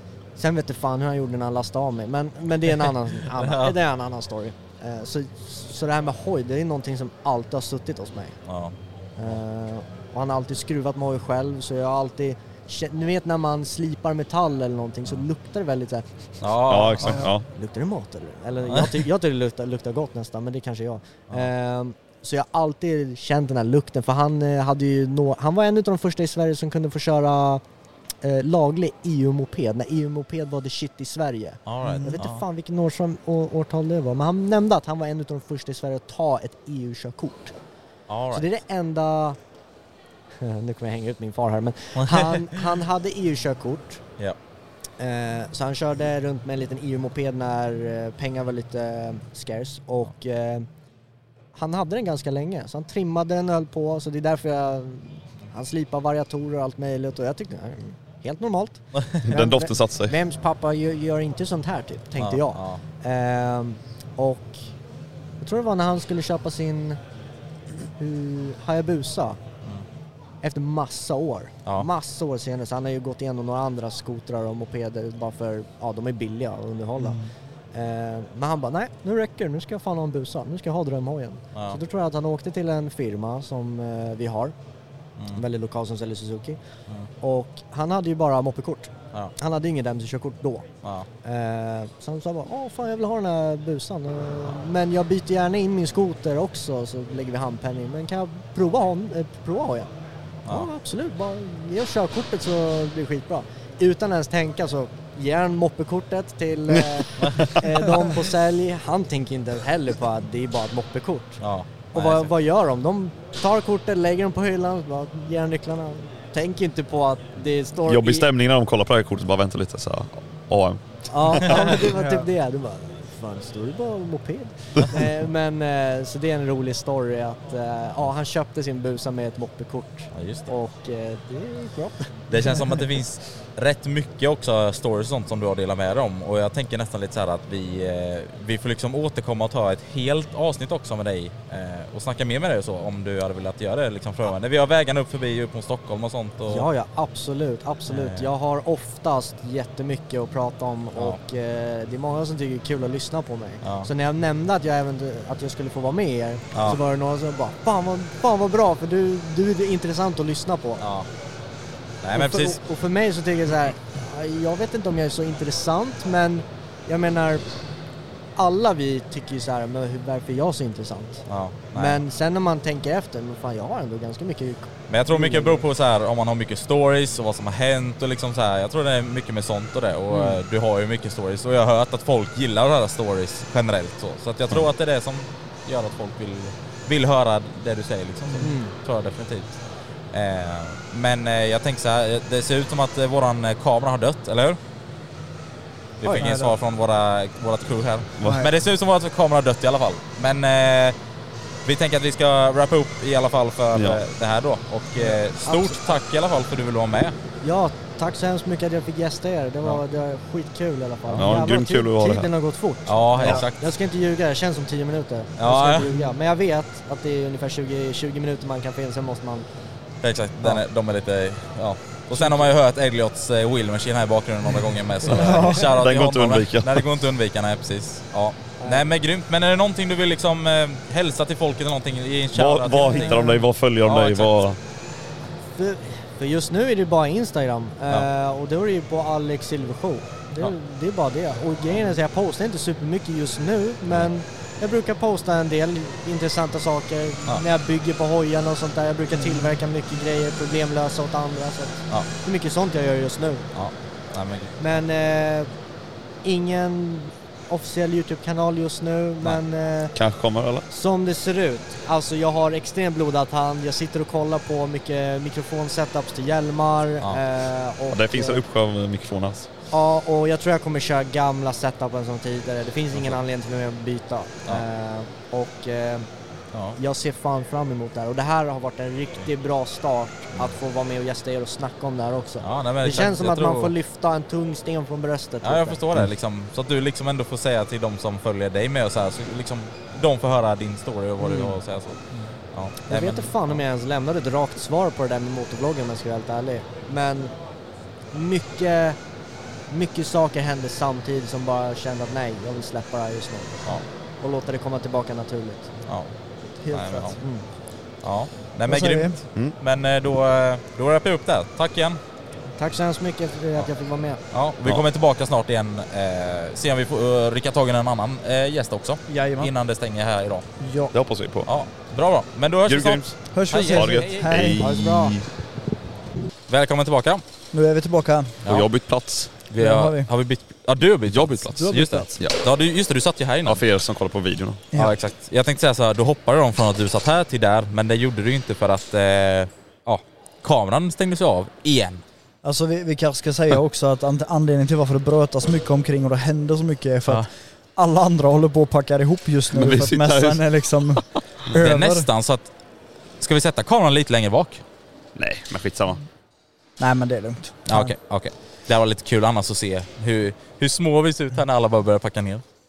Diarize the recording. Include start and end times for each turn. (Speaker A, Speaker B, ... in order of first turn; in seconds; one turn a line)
Speaker A: 0.4-8.4
Speaker B: 3.4-3.7
Speaker B: 8.5-8.7
Speaker A: 9.2-27.6
Speaker B: 16.4-17.2
Speaker C: 16.7-17.4
Speaker B: 18.7-19.0
Speaker A: 28.2-37.5
Speaker B: 31.7-32.4
Speaker D: 31.8-32.2
Speaker B: 38.1-38.5
Speaker A: 38.3-39.4
Speaker A: 40.4-44.0
Speaker B: 42.0-42.6
Speaker A: 45.0-50.7
Speaker A: 51.5-64.6
Speaker C: 59.2-60.1
Speaker B: 62.2-62.8
Speaker A: 65.4-67.0
Speaker A: 68.0-69.4
Speaker A: 70.4-77.2
Speaker D: 77.0-77.3
Speaker A: 77.7-84.5
Speaker B: 81.5-81.8
Speaker A: 85.3-86.6
Speaker A: 87.2-90.7
Speaker A: 91.2-99.9
Speaker A: 100.5-118.3
Speaker B: 111.4-112.3
Speaker C: 117.9-121.8
Speaker A: 121.1-132.8
Speaker D: 121.7-122.3
Speaker B: 130.1-130.5
Speaker B: 132.3-146.7
Speaker A: 146.5-160.8
Speaker B: 147.9-148.3
Speaker B: 153.6-153.9
Speaker B: 156.5-156.8
Speaker B: 160.8-161.1
Speaker B: 162.0-162.6
Speaker A: 162.1-167.6
Speaker A: 168.4-175.6
Speaker B: 171.3-172.0
Speaker B: 174.9-194.6
Speaker A: 180.1-180.4
Speaker D: 188.2-188.5
Speaker A: 188.4-188.7
Speaker B: 196.0-201.0
Speaker D: 196.1-196.6
Speaker D: 198.2-198.5
Speaker B: 201.7-207.2
Speaker C: 203.8-204.0
Speaker A: 205.0-205.9
Speaker A: 207.4-219.5
Speaker C: 211.2-212.3
Speaker B: 212.9-213.7
Speaker B: 215.4-215.9
Speaker B: 220.0-233.2
Speaker A: 222.1-222.5
Speaker C: 225.1-226.8
Speaker D: 225.2-225.7
Speaker A: 228.6-228.9
Speaker C: 232.3-234.6
Speaker B: 233.8-234.4
Speaker A: 235.5-253.5
Speaker B: 253.5-254.6
Speaker A: 254.6-255.5
Speaker A: 256.2-268.4
Speaker C: 259.9-260.6
Speaker C: 267.9-269.5
Speaker A: 269.7-276.1
Speaker B: 276.5-276.8
Speaker A: 276.8-285.8
Speaker B: 282.4-283.7
Speaker B: 285.4-293.6
Speaker A: 291.2-291.6
Speaker D: 292.1-292.4
Speaker A: 292.9-297.3
Speaker A: 298.1-299.0
Speaker A: 299.7-305.7
Speaker B: 305.9-312.0
Speaker D: 306.4-307.2
Speaker A: 307.2-307.4
Speaker D: 308.7-309.2
Speaker A: 312.6-314.2
Speaker B: 314.3-320.5
Speaker D: 319.1-319.5
Speaker D: 320.6-320.9
Speaker C: 320.9-321.5
Speaker B: 321.4-324.4
Speaker C: 322.7-325.3
Speaker D: 323.3-325.1
Speaker A: 324.6-325.1
Speaker B: 326.5-327.2
Speaker D: 327.5-328.4
Speaker B: 328.4-333.6
Speaker C: 328.4-329.4
Speaker D: 329.6-330.1
Speaker C: 331.1-332.4
Speaker D: 331.6-332.1
Speaker C: 333.4-334.6
Speaker B: 334.8-342.0
Speaker D: 342.4-352.1
Speaker C: 349.5-351.0
Speaker B: 351.6-352.5
Speaker B: 353.2-354.6
Speaker C: 355.1-356.1
Speaker D: 356.8-357.9
Speaker B: 357.7-362.4